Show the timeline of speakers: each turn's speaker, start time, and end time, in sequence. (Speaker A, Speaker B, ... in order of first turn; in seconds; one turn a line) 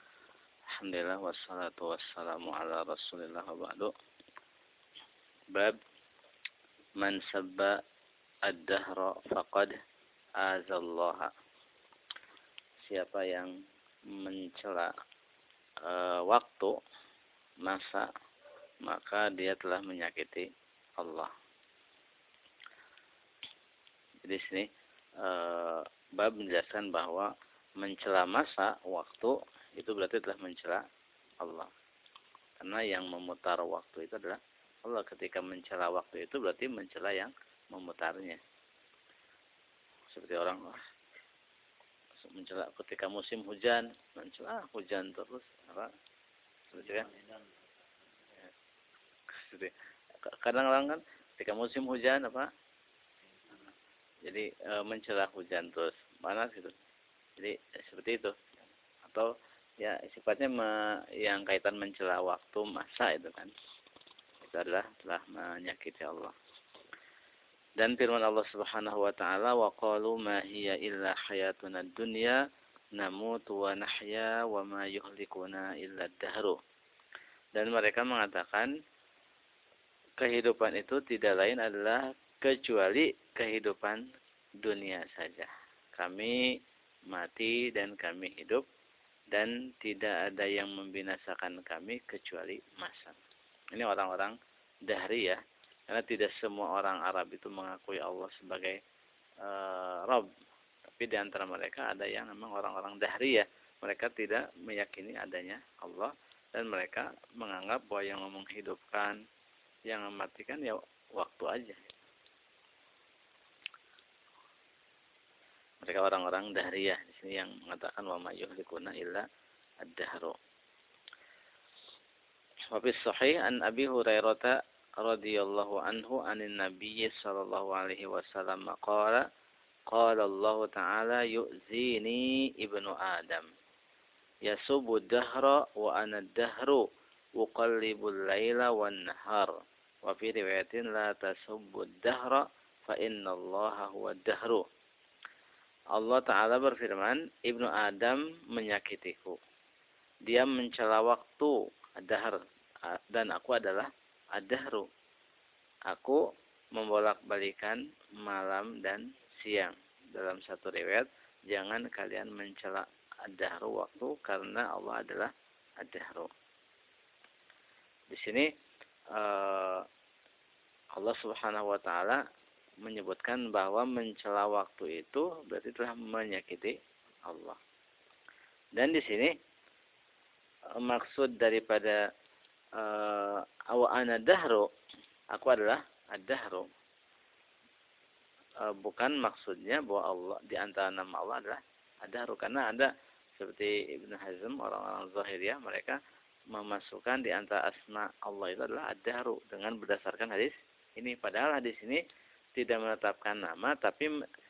Speaker A: 0.7-3.9
Speaker A: 7.0-7.7
Speaker A: 8.4-9.7
Speaker A: 10.4-11.3
Speaker A: 12.8-13.5
Speaker A: 14.1-14.9
Speaker A: 15.8-16.7
Speaker A: 17.6-18.1
Speaker A: 18.8-20.5
Speaker A: 21.0-21.3
Speaker A: 24.2-24.7
Speaker A: 25.2-30.8
Speaker A: 31.4-31.7
Speaker A: 32.6-38.4
Speaker A: 40.1-40.8
Speaker A: 42.2-45.9
Speaker A: 46.7-47.1
Speaker A: 49.3-49.8
Speaker A: 50.3-52.5
Speaker A: 54.2-56.7
Speaker A: 57.4-58.5
Speaker A: 59.8-63.5
Speaker A: 64.4-66.3
Speaker A: 67.8-72.4
Speaker A: 73.0-76.6
Speaker A: 77.5-78.7
Speaker A: 80.2-84.0
Speaker A: 84.6-86.5
Speaker A: 87.1-88.6
Speaker A: 89.3-93.2
Speaker A: 93.7-98.8
Speaker A: 99.4-100.3
Speaker A: 100.8-109.2
Speaker A: 109.9-112.0
Speaker A: 115.8-119.2
Speaker A: 119.8-120.4
Speaker A: 122.7-129.2
Speaker A: 129.9-133.5
Speaker A: 134.5-136.8
Speaker A: 137.4-144.6
Speaker A: 145.9-149.4
Speaker A: 150.3-154.9
Speaker A: 155.9-156.2
Speaker A: 156.7-166.3
Speaker A: 168.1-168.5
Speaker A: 169.1-169.9
Speaker A: 170.9-172.2
Speaker A: 172.8-177.6
Speaker A: 178.8-179.3
Speaker A: 180.8-182.0
Speaker A: 182.8-184.7
Speaker A: 185.3-186.7
Speaker A: 188.6-196.0
Speaker A: 196.5-202.0
Speaker A: 202.6-204.1